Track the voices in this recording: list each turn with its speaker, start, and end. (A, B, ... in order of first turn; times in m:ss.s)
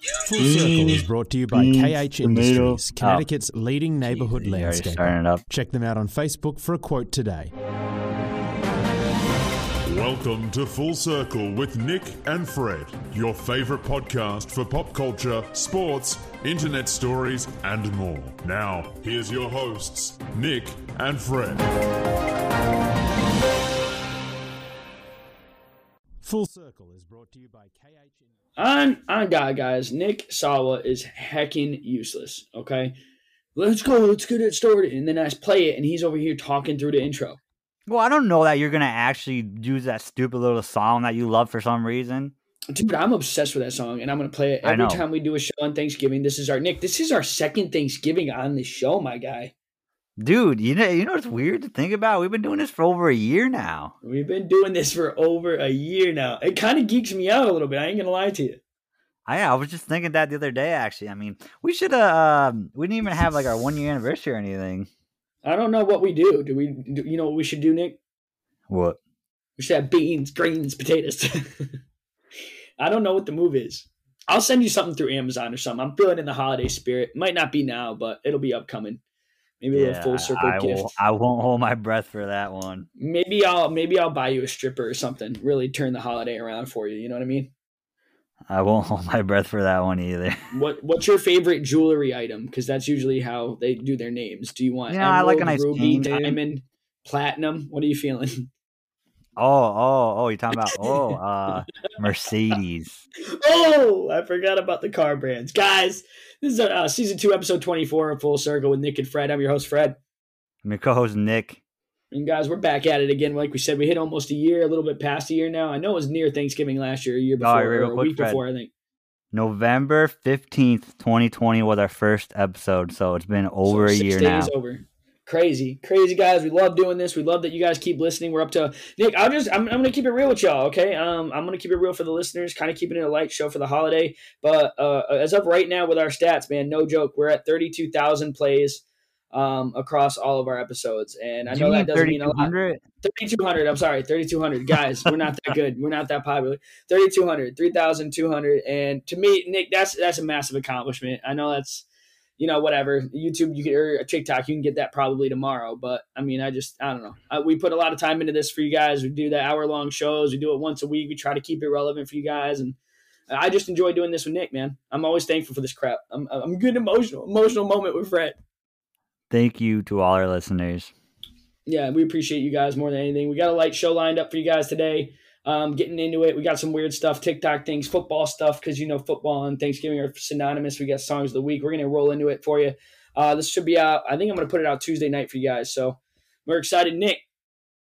0:00.2-0:07.5 A
0:00.4-0:03.2 B
0:04.1-0:05.4 B
0:09.8-0:21.6 C
0:26.2-0:28.3 A
0:28.6-0:32.9 D
0:33.6-0:37.4 D
0:37.9-0:42.3 B
0:42.7-0:49.5 D
0:44.6-0:45.0 B
0:50.2-0:53.9 B
0:54.0-0:58.6 D
0:59.3-1:04.9 B
1:05.4-1:08.0 D
1:08.7-1:09.0 B
1:09.6-1:11.8 D
1:12.8-1:19.0 D
1:19.6-1:20.9 D
1:19.7-1:22.9 B
1:23.0-1:27.5 D
1:28.5-1:30.4 B
1:30.5-1:38.5 D
1:34.9-1:36.4 B
1:39.4-1:43.0 B
1:40.6-1:41.2 D
1:43.3-1:50.0 D
1:50.6-1:51.6 B
1:52.1-1:58.7 D
1:57.4-1:58.4 B
1:59.3-2:04.5 B
2:03.6-2:22.5 D
2:21.5-2:22.8 B
2:23.0-2:31.8 D
2:32.4-2:42.8 D
2:43.3-2:48.4 D
2:49.3-2:50.9 B
2:51.6-3:07.2 D